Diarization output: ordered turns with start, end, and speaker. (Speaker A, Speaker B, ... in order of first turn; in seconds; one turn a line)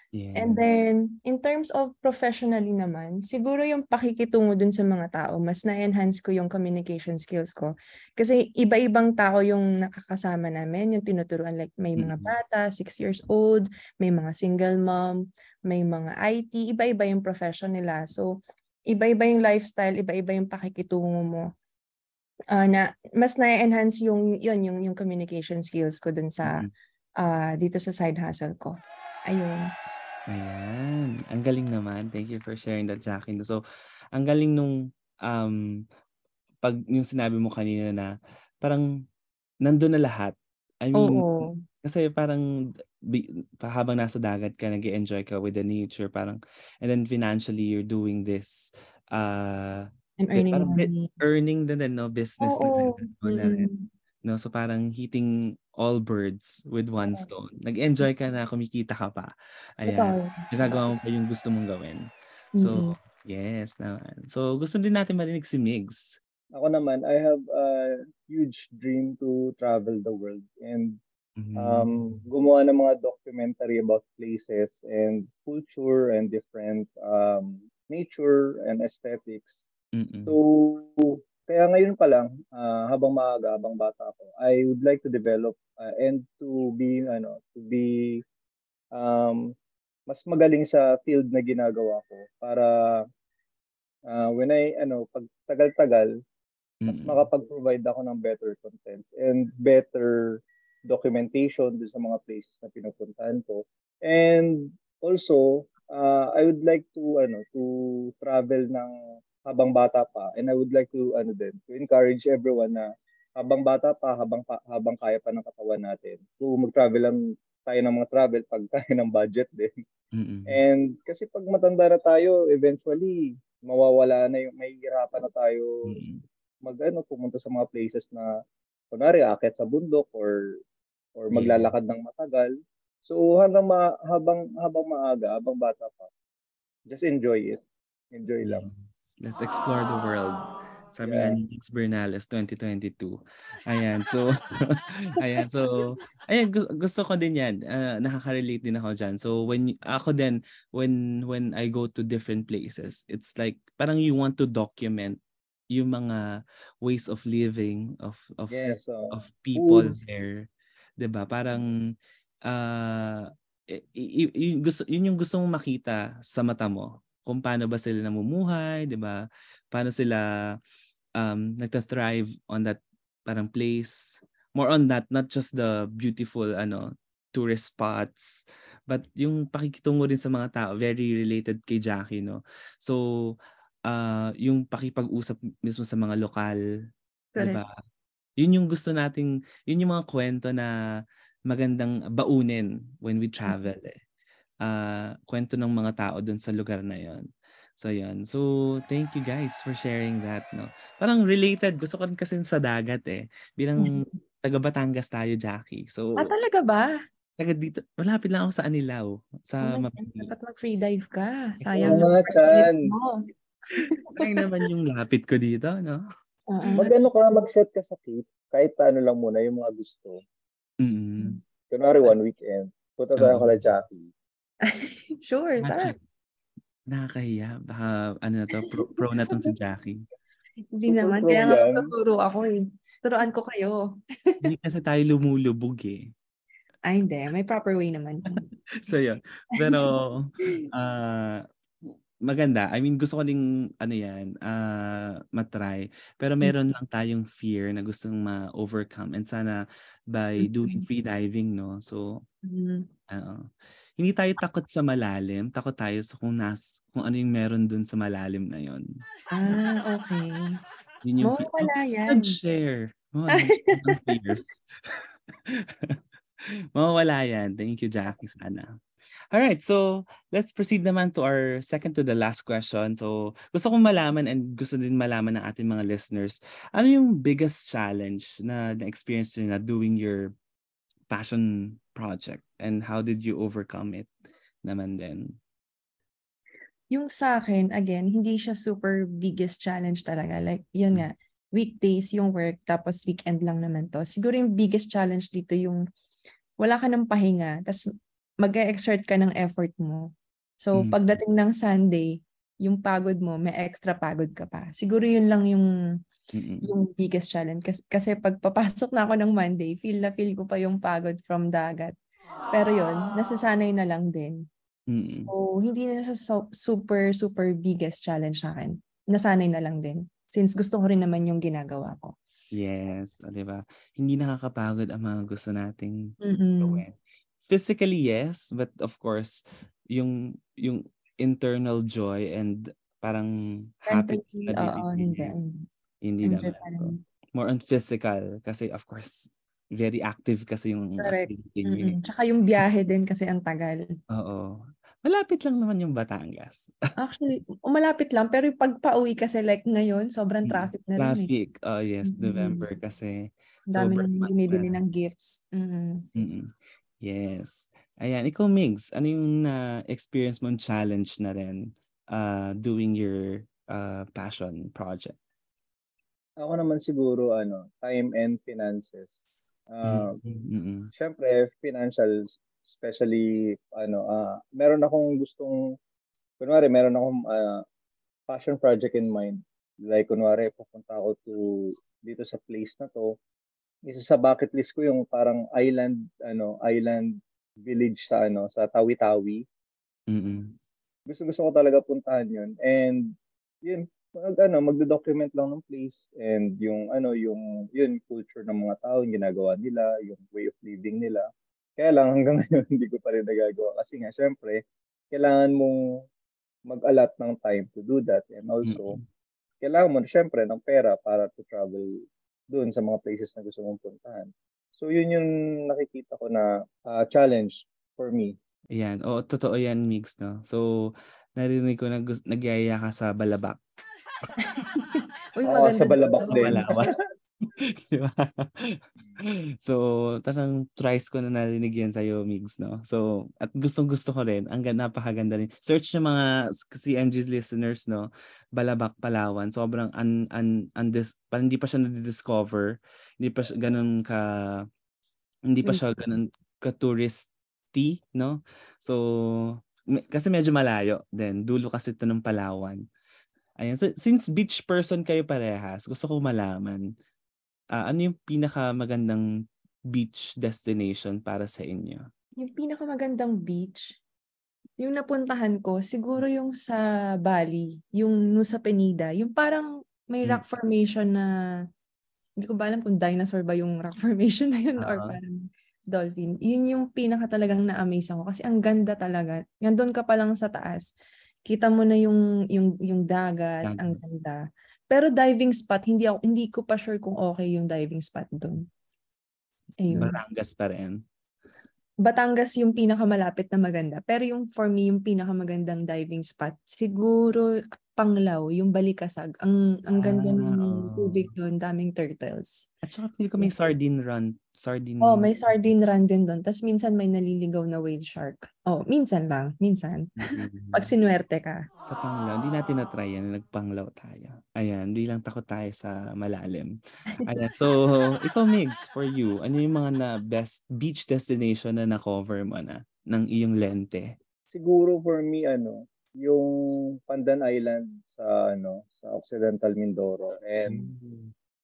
Speaker A: 0.1-0.6
Speaker B: 0.3-15.1
Speaker A: 12.0-12.3
Speaker B: 15.7-18.3
Speaker B: 18.9-21.5
Speaker B: 22.5-26.6
Speaker A: 26.4-26.7
Speaker B: 27.2-29.7
Speaker A: 30.3-33.6
Speaker A: 34.1-35.9
Speaker A: 36.6-38.9
Speaker A: 39.6-42.5
Speaker B: 41.0-41.6
Speaker A: 43.0-48.6
Speaker A: 49.1-53.7
Speaker B: 50.2-51.1
Speaker B: 52.4-53.9
Speaker A: 54.2-66.2
Speaker B: 57.0-57.3
Speaker B: 59.9-60.8
Speaker B: 62.6-63.0
Speaker C: 66.5-71.0
Speaker A: 71.4-72.2
Speaker C: 71.6-79.6
Speaker A: 79.9-80.4
Speaker C: 80.3-88.2
Speaker C: 88.9-89.4
Speaker C: 90.1-93.0
Speaker C: 94.1-96.1
Speaker A: 96.8-97.2
Speaker C: 96.9-100.2
Speaker C: 100.9-108.9
Speaker C: 109.5-119.7
Speaker A: 120.1-120.6
Speaker C: 120.5-125.8
Speaker A: 125.9-126.2
Speaker C: 126.6-128.3
Speaker C: 128.9-130.5
Speaker C: 131.2-132.5
Speaker A: 131.3-131.7
Speaker C: 133.1-136.1
Speaker C: 136.9-137.6
Speaker C: 138.1-138.7
Speaker A: 138.4-155.2
Speaker C: 141.0-141.4
Speaker A: 155.7-160.5
Speaker C: 158.5-160.0
Speaker A: 161.0-161.7
Speaker A: 162.5-170.6
Speaker A: 171.2-183.4
Speaker A: 183.9-186.6
Speaker B: 187.3-187.6
Speaker A: 187.4-187.7
Speaker A: 188.4-190.7
Speaker A: 191.5-194.0
Speaker A: 194.6-197.3
Speaker A: 197.8-206.3
Speaker B: 206.2-206.9
Speaker A: 207.4-210.3
Speaker B: 209.6-214.3
Speaker A: 211.6-212.1
Speaker C: 211.8-212.8
Speaker A: 214.1-216.0
Speaker B: 216.5-216.9
Speaker C: 216.8-220.2
Speaker A: 220.8-221.4
Speaker C: 221.7-224.1
Speaker A: 223.2-223.6
Speaker B: 224.7-225.9
Speaker A: 225.6-225.9
Speaker A: 226.9-230.0
Speaker B: 230.8-234.4
Speaker C: 230.9-231.9
Speaker A: 234.4-236.1
Speaker B: 236.9-238.5
Speaker A: 238.8-252.2
Speaker B: 250.4-250.9
Speaker B: 252.4-252.9
Speaker A: 253.1-253.5
Speaker A: 254.0-258.9
Speaker B: 259.3-260.6
Speaker A: 261.0-266.0
Speaker B: 261.2-262.4
Speaker B: 263.3-264.2
Speaker A: 266.8-268.8
Speaker A: 269.3-280.3
Speaker A: 281.1-284.1
Speaker A: 284.6-285.4
Speaker B: 286.9-295.8
Speaker B: 296.6-297.8
Speaker B: 298.4-300.1
Speaker B: 300.6-305.7
Speaker A: 306.3-306.7
Speaker B: 306.6-311.9
Speaker B: 312.5-314.4
Speaker A: 314.9-315.3
Speaker B: 315.2-322.1
Speaker A: 322.6-329.4
Speaker B: 326.2-326.8
Speaker A: 329.9-335.4
Speaker B: 333.9-335.6
Speaker A: 336.0-342.0
Speaker B: 336.2-337.0
Speaker B: 341.0-343.8
Speaker A: 344.1-346.7
Speaker B: 347.0-351.3
Speaker A: 350.4-354.8
Speaker B: 352.1-352.7
Speaker B: 353.7-356.1
Speaker A: 356.1-365.2
Speaker C: 366.4-369.1
Speaker C: 369.7-370.2
Speaker A: 369.9-370.9
Speaker C: 371.0-375.6
Speaker C: 376.4-377.6
Speaker C: 378.3-383.1
Speaker C: 383.9-389.4
Speaker A: 390.1-390.6
Speaker C: 391.1-393.1
Speaker C: 393.6-401.3
Speaker C: 401.8-404.6
Speaker C: 405.1-405.8
Speaker C: 406.7-409.0
Speaker A: 408.6-409.0
Speaker C: 409.6-411.9
Speaker C: 412.5-418.4
Speaker A: 418.7-423.6
Speaker B: 425.4-426.9
Speaker C: 425.4-426.9
Speaker A: 426.3-426.9
Speaker A: 427.4-444.6
Speaker A: 445.5-452.8
Speaker B: 445.6-445.9
Speaker A: 453.6-456.9
Speaker A: 457.7-459.3
Speaker A: 459.9-462.1
Speaker B: 462.4-464.0
Speaker B: 464.8-471.3
Speaker B: 472.4-475.4
Speaker A: 474.8-475.2
Speaker B: 475.9-480.9
Speaker B: 481.5-488.7
Speaker A: 483.6-484.0
Speaker B: 489.8-490.2
Speaker A: 489.9-491.0
Speaker B: 492.0-502.7
Speaker A: 499.9-501.3
Speaker A: 502.8-505.3
Speaker B: 505.0-511.6
Speaker A: 510.2-510.9
Speaker A: 511.9-524.1
Speaker C: 524.5-526.5
Speaker C: 527.1-530.9
Speaker A: 530.6-531.3